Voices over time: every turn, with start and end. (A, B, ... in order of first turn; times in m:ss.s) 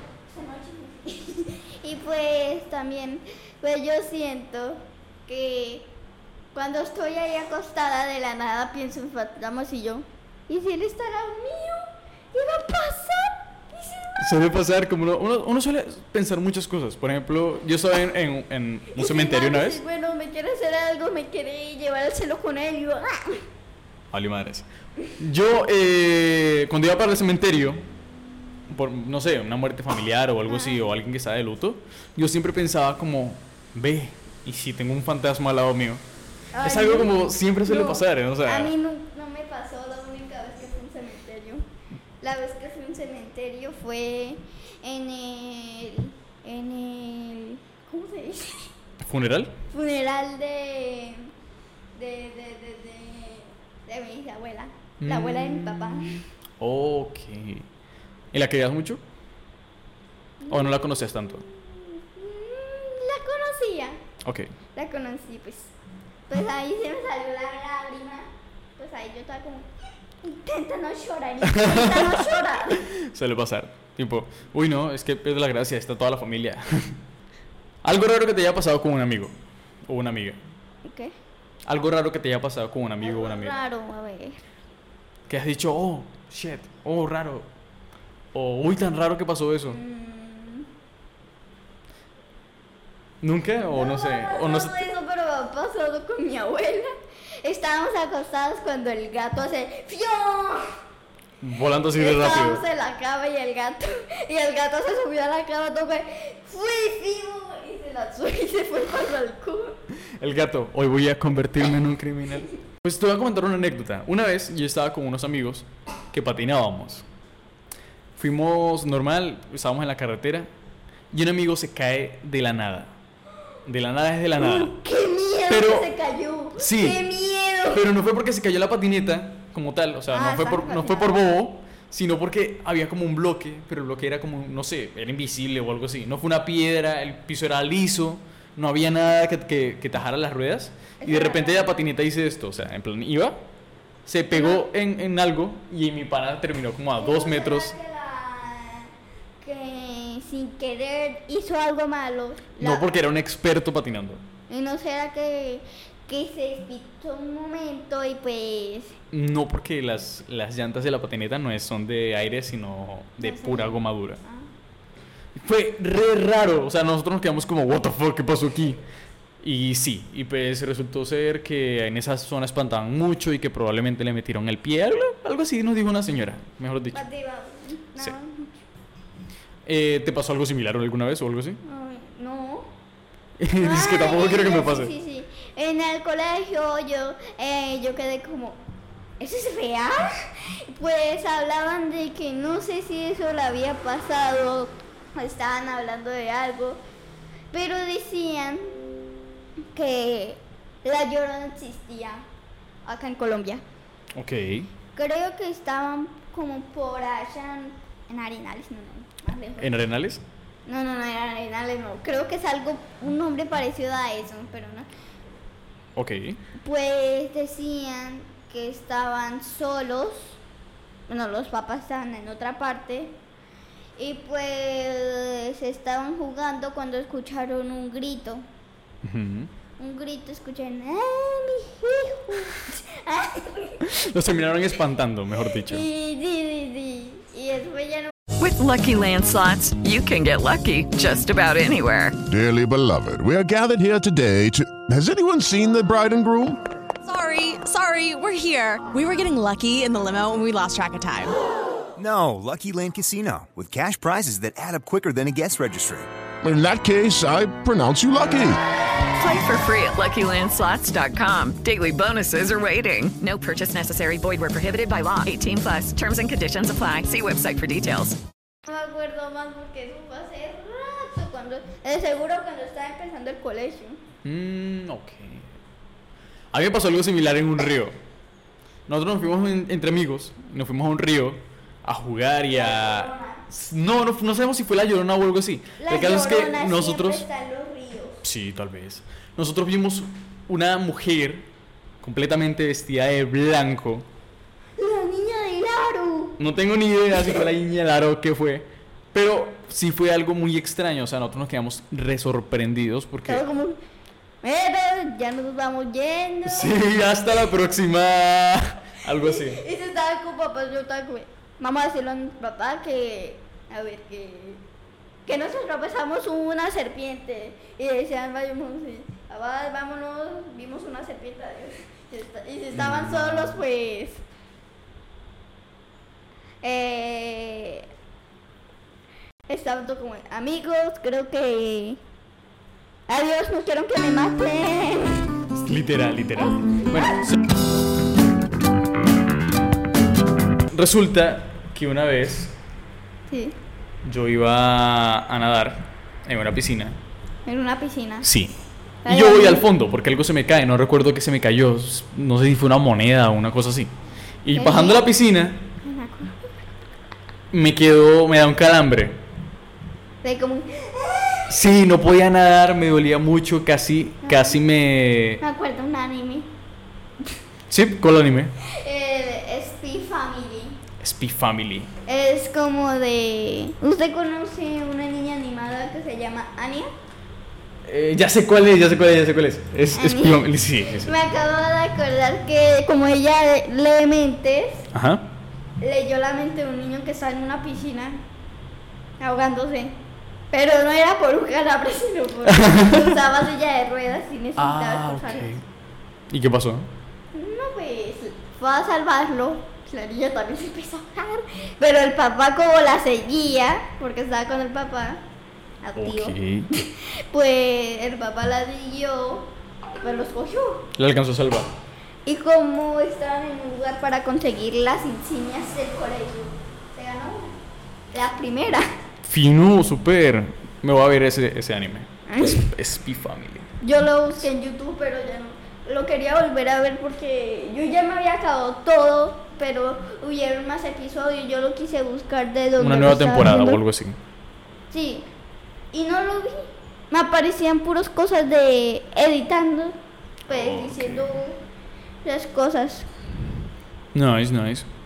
0:00.2-0:05.9 A
0:06.5-0:14.3 A
0:14.2-0:19.8 B
0:18.9-0:23.4 A
0:24.1-0:24.6 B
0:25.2-0:27.8 B
0:28.7-0:36.0 B
0:30.5-0:30.9 A
0:36.5-0:37.1 A
0:36.6-0:38.7 B
0:37.6-0:41.6 A
0:42.2-0:48.7 A
0:49.0-0:49.5 B
0:49.7-0:51.3 A
0:51.9-0:56.2 A
0:55.0-0:55.9 B
0:56.6-0:57.6 B
0:58.3-0:59.0 B
1:00.4-1:04.0 A
1:00.5-1:01.4 B
1:04.7-1:05.7 A
1:06.3-1:09.7 A
1:10.2-1:12.9 A
1:11.4-1:17.0 B
1:17.8-1:19.3 B
1:19.9-1:20.4 B
1:20.8-1:21.1 A
1:21.6-1:23.5 B
1:23.0-1:24.4 A
1:25.3-1:27.5 B
1:28.3-1:29.8 B
1:29.7-1:30.7 A
1:33.2-1:34.8 B
1:33.7-1:36.9 A
1:37.4-1:40.6 A
1:41.4-1:42.6 B
1:42.0-1:49.8 A
1:50.2-1:57.0 B
1:58.2-2:00.5 B
2:01.1-2:02.9 B
2:03.6-2:04.7 B
2:04.4-2:07.8 A
2:05.5-2:05.9 B
2:06.6-2:07.0 B
2:07.7-2:23.4 B
2:10.1-2:11.1 A
2:21.0-2:21.7 A
2:24.0-2:27.7 B
2:24.3-2:24.7 A
2:27.0-2:32.9 A
2:32.6-2:34.2 B
2:34.5-2:39.0 A
2:39.1-2:44.2 B
2:43.2-2:44.5 A
2:45.4-2:48.8 B
2:49.4-2:57.0 B
2:56.9-2:58.5 A
2:59.6-3:01.6 B
3:01.6-3:02.7 A
3:03.4-3:04.9 B
3:03.5-3:08.6 A
3:09.2-3:16.8 A
3:17.5-3:18.8 A
3:19.7-3:22.2 A
3:22.8-3:23.6 A
3:24.1-3:24.7 B
3:24.9-3:29.7 A
3:29.6-3:30.2 B
3:30.6-3:34.9 A
3:36.0-3:36.4 B
3:36.6-3:40.4 A
3:41.1-3:43.2 A
3:44.0-3:48.4 A
3:49.0-3:49.5 B
3:49.8-3:53.8 A
3:53.8-3:55.8 B
3:55.7-3:58.1 A
3:58.4-4:02.2 C
4:02.3-4:06.6 D
4:07.0-4:11.3 E
4:12.0-4:16.1 F
4:16.4-4:18.6 D
4:19.2-4:28.2 C
4:28.6-4:34.0 A
4:34.2-4:35.5 B
4:36.5-4:37.9 B
4:38.9-4:47.2 B
4:42.5-4:43.4 A
4:45.8-4:48.2 A
4:48.2-4:51.5 B
4:52.0-4:54.0 B
4:54.8-4:56.4 A
4:56.4-5:03.4 B
5:03.2-5:03.8 A
5:04.4-5:06.8 A
5:06.4-5:09.6 B
5:09.1-5:14.6 A
5:15.2-5:24.2 A
5:22.7-5:23.6 B
5:26.6-5:27.9 A
5:29.5-5:32.0 A
5:33.1-5:35.3 A
5:35.6-5:37.3 B
5:40.7-5:42.5 B
5:43.3-5:43.5 A
5:44.0-5:47.0 B
5:47.4-5:48.3 A
5:48.2-5:53.9 B
5:49.0-5:49.7 A
5:54.4-5:55.6 B
5:54.5-5:55.1 A
5:55.8-5:56.5 A
5:57.5-5:59.2 B
6:00.2-6:01.5 A
6:01.5-6:05.4 B
6:04.2-6:04.6 A
6:05.4-6:06.5 A
6:07.7-6:08.5 B
6:08.6-6:10.8 A
6:11.0-6:11.9 B
6:12.1-6:16.9 A
6:17.8-6:21.1 B
6:19.9-6:20.4 A
6:21.0-6:24.8 A
6:24.9-6:25.3 B
6:25.8-6:28.2 A
6:29.2-6:30.0 A
6:30.5-6:35.5 A
6:32.5-6:33.1 B
6:34.6-6:35.6 B
6:36.3-6:36.9 B
6:37.3-6:45.2 A
6:45.8-6:50.8 A
6:46.0-6:46.7 B
6:51.0-6:51.7 B
6:52.2-6:57.6 A
6:58.1-6:58.8 A
6:59.2-7:03.7 B
7:02.3-7:02.7 A
7:03.8-7:13.8 A
7:12.8-7:14.2 B
7:14.9-7:15.2 A
7:15.9-7:20.0 A
7:20.5-7:21.3 B
7:20.5-7:21.6 A
7:22.2-7:23.1 A
7:24.1-7:24.8 B